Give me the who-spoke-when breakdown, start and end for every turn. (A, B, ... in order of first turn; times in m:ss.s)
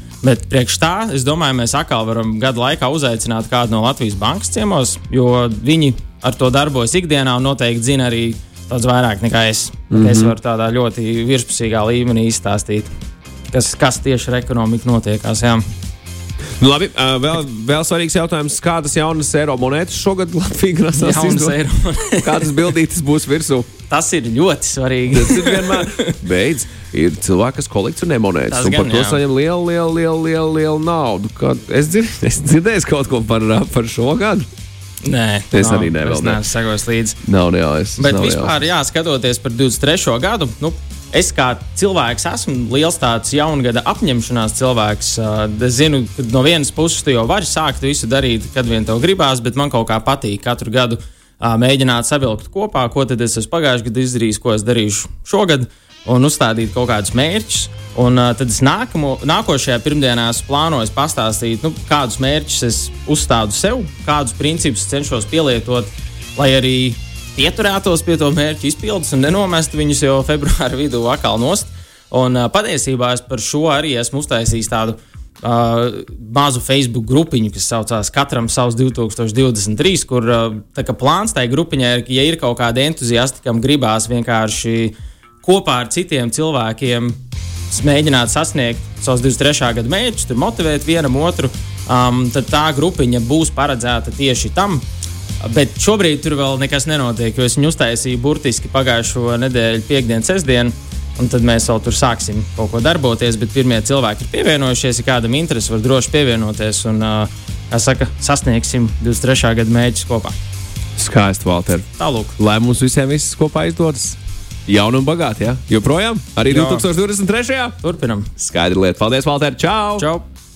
0:00.2-0:12.9 A
0:09.9-0:10.3 B
0:13.5-0:15.6 A
0:16.6-0:21.6 B
0:21.0-0:22.5 A
0:22.2-0:23.7 B
0:23.9-0:26.1 A
0:25.1-0:34.5 B
0:28.5-0:29.2 A
0:35.0-0:37.2 A
0:35.5-0:36.4 B
0:37.2-0:38.5 B
0:38.0-1:27.2 A
1:27.7-1:34.8 A
1:35.4-1:50.3 A
1:51.0-1:51.8 B
1:52.0-1:52.4 A
1:52.4-1:57.7 B
1:56.5-1:56.8 A
1:57.8-1:58.3 A
1:58.4-2:00.0 B
2:00.0-2:00.2 A